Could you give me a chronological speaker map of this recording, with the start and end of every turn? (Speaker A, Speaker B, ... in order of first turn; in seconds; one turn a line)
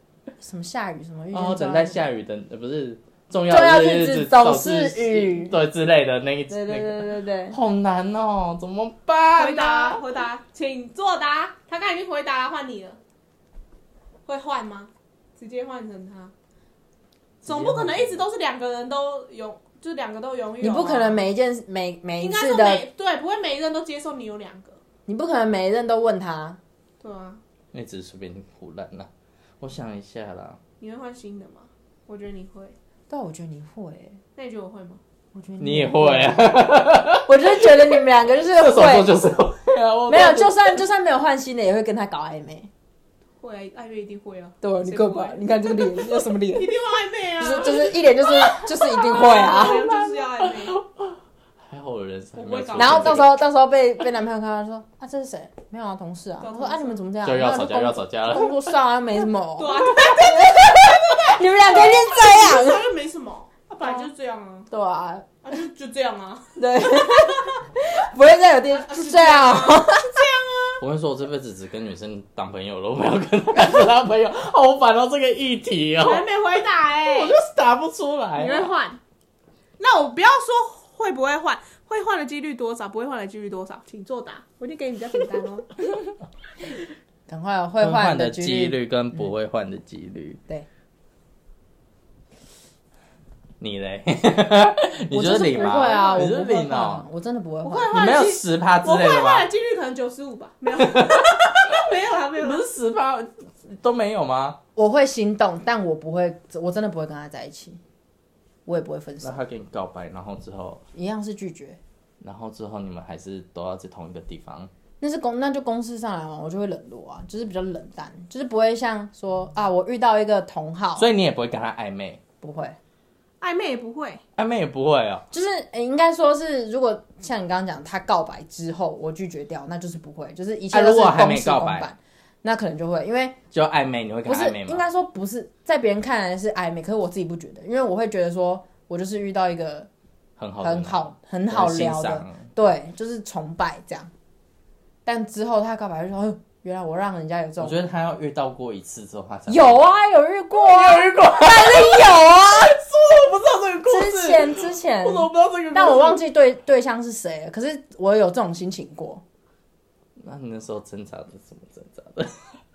Speaker A: 0.4-2.1
Speaker B: 1.3-10.0
Speaker A: 3.5-5.6
Speaker A: 6.5-7.6
Speaker C: 9.4-13.0
Speaker C: 14.2-16.3
Speaker B: 17.4-18.2
Speaker C: 17.4-21.3
Speaker A: 20.6-22.8
Speaker C: 22.2-24.8
Speaker A: 25.1-26.6
Speaker C: 27.0-27.4
Speaker B: 27.7-29.1
Speaker B: 29.6-30.6
Speaker C: 30.8-32.7
Speaker A: 33.1-34.2
Speaker C: 34.4-35.0
Speaker A: 35.3-36.7
Speaker B: 35.6-40.8
Speaker A: 37.2-39.2
Speaker A: 40.1-42.7
Speaker C: 43.4-48.1
Speaker A: 44.6-46.7
Speaker A: 47.4-49.8
Speaker C: 48.9-50.8
Speaker B: 49.6-53.3
Speaker C: 52.4-53.3
Speaker A: 52.8-62.9
Speaker C: 56.4-57.0
Speaker B: 57.2-58.5
Speaker C: 59.6-64.7
Speaker A: 64.7-65.3
Speaker C: 65.4-66.5
Speaker A: 66.5-70.2
Speaker C: 68.9-70.8
Speaker B: 70.8-76.3
Speaker C: 76.0-77.4
Speaker B: 77.1-78.7
Speaker C: 78.4-79.0
Speaker C: 79.8-85.8
Speaker A: 87.3-89.2
Speaker B: 87.8-90.4
Speaker B: 93.6-97.0
Speaker A: 95.1-97.9
Speaker C: 95.7-96.2
Speaker C: 97.6-102.6
Speaker B: 97.9-99.5
Speaker B: 100.8-101.8
Speaker B: 102.4-104.6
Speaker A: 104.8-107.8
Speaker A: 108.7-109.4
Speaker B: 109.2-110.8
Speaker A: 110.9-111.8
Speaker B: 112.2-114.7
Speaker A: 115.0-121.1
Speaker B: 121.0-122.2
Speaker A: 122.4-122.8
Speaker C: 123.4-124.2
Speaker B: 124.3-125.2
Speaker A: 125.3-133.4
Speaker B: 130.7-131.9
Speaker B: 133.5-134.8
Speaker A: 134.2-139.9
Speaker B: 140.4-142.5
Speaker A: 140.6-144.1
Speaker A: 145.0-147.8
Speaker B: 147.6-149.8
Speaker A: 149.5-152.8
Speaker B: 150.5-156.2
Speaker A: 153.9-159.2
Speaker B: 160.2-162.5